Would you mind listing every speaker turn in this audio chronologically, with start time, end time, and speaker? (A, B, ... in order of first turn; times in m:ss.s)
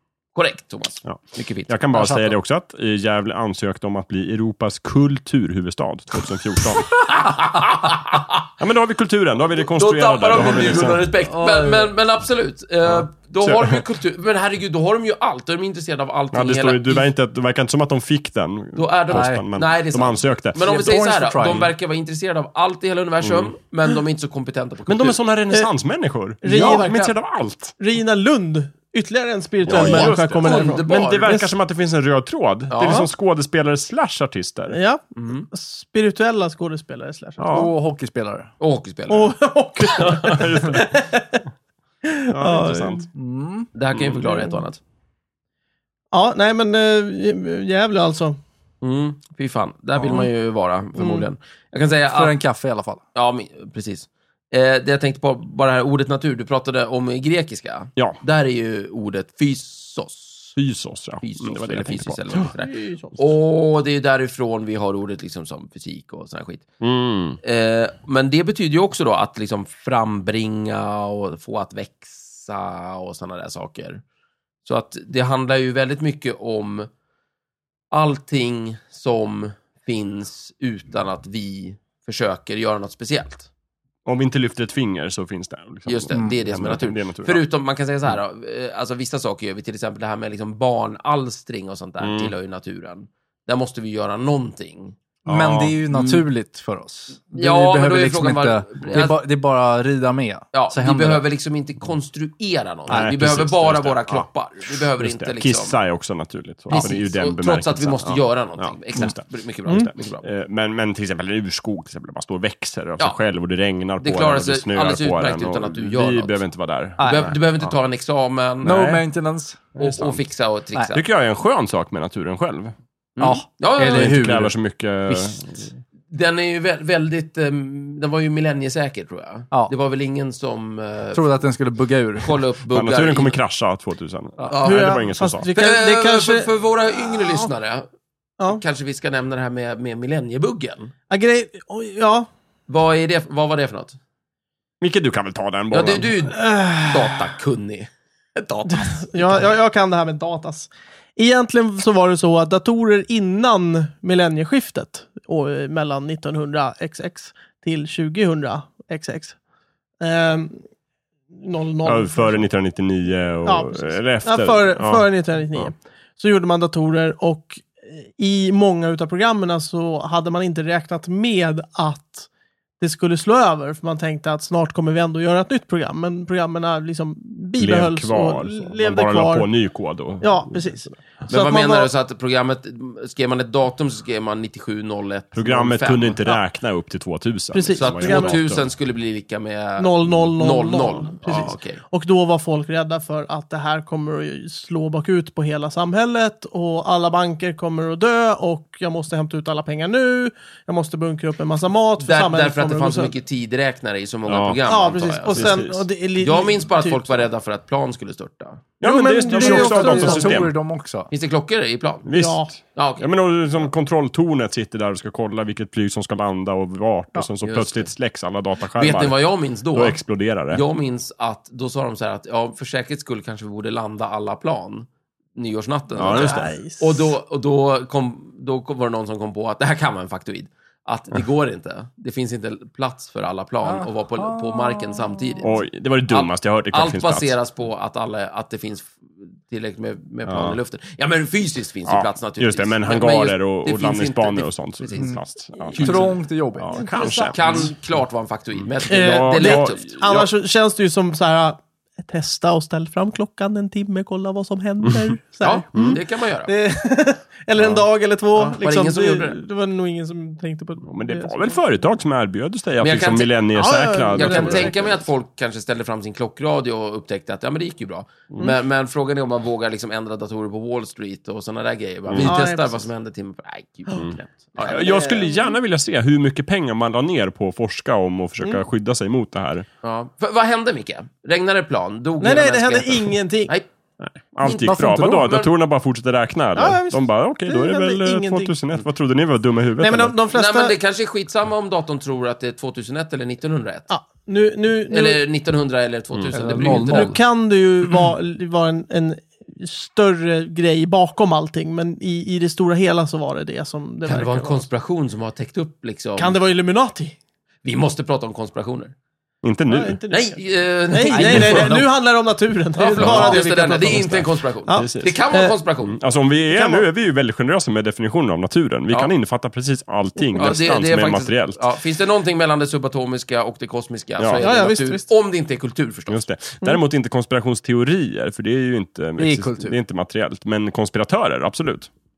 0:00.3-0:02.3 A
0:01.0-0:07.0 B
0:07.0-0:08.4 A
0:08.6-0:11.1 B
0:09.6-0:17.1 A
0:11.2-0:11.9 C
0:12.9-0:13.8 B
0:16.3-0:20.8 B
0:18.7-0:25.2 A
0:19.1-0:19.4 C
0:20.6-0:21.7 C
0:23.2-0:23.5 B
0:24.9-0:27.8 B
0:26.4-0:27.1 D
0:26.5-0:27.0 A
0:27.8-0:31.5 D
0:29.6-0:34.8 B
0:29.7-0:31.4 A
0:32.7-0:33.0 A
0:34.7-0:37.7 D
0:35.1-0:35.5 A
0:37.4-0:37.7 B
0:37.5-0:38.5 C
0:38.6-0:39.3 A
0:39.1-0:41.4 D
0:39.9-0:41.0 B
0:42.1-0:43.0 D
0:42.3-0:43.1 B
0:43.1-0:43.7 C
0:43.7-0:44.8 A
0:43.9-0:44.2 B
0:46.1-0:48.4 D
0:48.8-0:52.4 A
0:50.0-0:50.3 D
0:51.0-0:51.3 D
0:52.1-0:53.0 C
0:53.1-1:00.6 A
1:00.6-1:02.5 B
1:01.2-1:06.7 A
1:02.6-1:03.3 D
1:06.8-1:07.4 B
1:07.4-1:14.0 A
1:14.6-1:16.9 A
1:17.9-1:23.5 A
1:24.0-1:27.4 B
1:25.9-1:35.0 A
1:32.0-1:32.3 B
1:35.2-1:41.2 C
1:35.2-1:35.8 B
1:35.9-1:36.2 A
1:37.3-1:39.2 A
1:40.5-1:45.8 A
1:42.9-1:57.7 B
1:46.7-1:50.2 A
1:54.0-1:56.4 A
1:57.0-1:57.3 C
1:57.0-1:58.8 A
1:58.6-1:59.0 B
1:58.6-1:59.6 C
1:59.8-2:00.2 B
1:59.8-2:01.0 A
2:00.9-2:02.7 B
2:03.2-2:04.2 A
2:03.2-2:04.5 C
2:03.9-2:05.7 B
2:06.1-2:11.2 A
2:11.1-2:12.3 C
2:12.2-2:13.4 A
2:12.7-2:15.5 B
2:14.4-2:14.9 A
2:14.6-2:16.5 D
2:15.5-2:17.9 A
2:17.0-2:17.5 D
2:18.4-2:20.9 A
2:21.1-2:22.3 D
2:22.7-2:24.0 A
2:24.8-2:26.3 B
2:25.7-2:29.4 A
2:26.3-2:27.2 D
2:28.7-2:39.4 D
2:40.0-2:40.6 D
2:41.4-2:42.4 D
2:41.8-2:45.7 B
2:43.4-2:52.3 D
2:52.8-2:59.5 D
2:57.6-3:01.0 B
3:00.2-3:01.9 D
3:01.3-3:06.2 A
3:05.3-3:08.7 B
3:07.5-3:08.4 D
3:07.8-3:11.8 A
3:09.8-3:23.1 D
3:22.0-3:25.6 A
3:24.3-3:24.6 B
3:24.7-3:27.2 D
3:25.3-3:25.8 B
3:26.2-3:28.6 A
3:28.8-3:30.5 B
3:28.8-3:30.3 D
3:29.3-3:31.1 C
3:31.1-3:32.1 A
3:32.0-3:40.6 B
3:32.1-3:32.5 D
3:32.7-3:33.1 A
3:37.4-3:37.9 A
3:38.7-3:40.0 A
3:40.5-3:55.5 A
3:45.9-3:46.5 B
3:46.0-3:47.1 D
3:53.6-3:55.4 C
3:55.4-3:57.4 B
3:56.1-4:06.2 A
4:00.3-4:00.6 B
4:01.9-4:07.7 B
4:05.7-4:07.6 C
4:07.0-4:09.9 A
4:08.8-4:21.6 D
4:09.0-4:10.3 B
4:15.4-4:16.5 A
4:17.6-4:17.8 B
4:18.3-4:19.4 A
4:20.8-4:25.0 B
4:22.8-4:23.4 A
4:23.5-4:24.8 D
4:24.1-4:35.0 A
4:32.2-4:32.9 D
4:34.0-4:39.6 B
4:34.6-4:35.5 D
4:39.8-4:43.7 A
4:42.2-4:43.5 D
4:44.0-4:50.2 B
4:44.4-4:44.7 A
4:44.4-4:45.5 C
4:46.6-4:48.5 D
4:49.8-4:50.7 D
4:50.3-4:53.9 A
4:53.9-4:55.2 D
4:54.9-4:57.2 A
4:56.1-4:56.6 B
4:56.3-4:57.2 C
4:56.6-5:04.7 D
5:04.0-5:06.4 A
5:06.2-5:07.2 D
5:07.6-5:08.9 A
5:09.4-5:10.0 B
5:09.7-5:14.2 D
5:10.1-5:11.8 A
5:11.1-5:11.9 C
5:11.2-5:11.8 B
5:12.8-5:16.0 A
5:12.9-5:15.2 B
5:14.7-5:15.6 D
5:15.8-5:21.6 B
5:16.5-5:16.8 D
5:20.3-5:26.3 A
5:24.2-5:24.4 B
5:24.4-5:25.1 D
5:26.1-5:31.9 B
5:29.2-5:29.8 C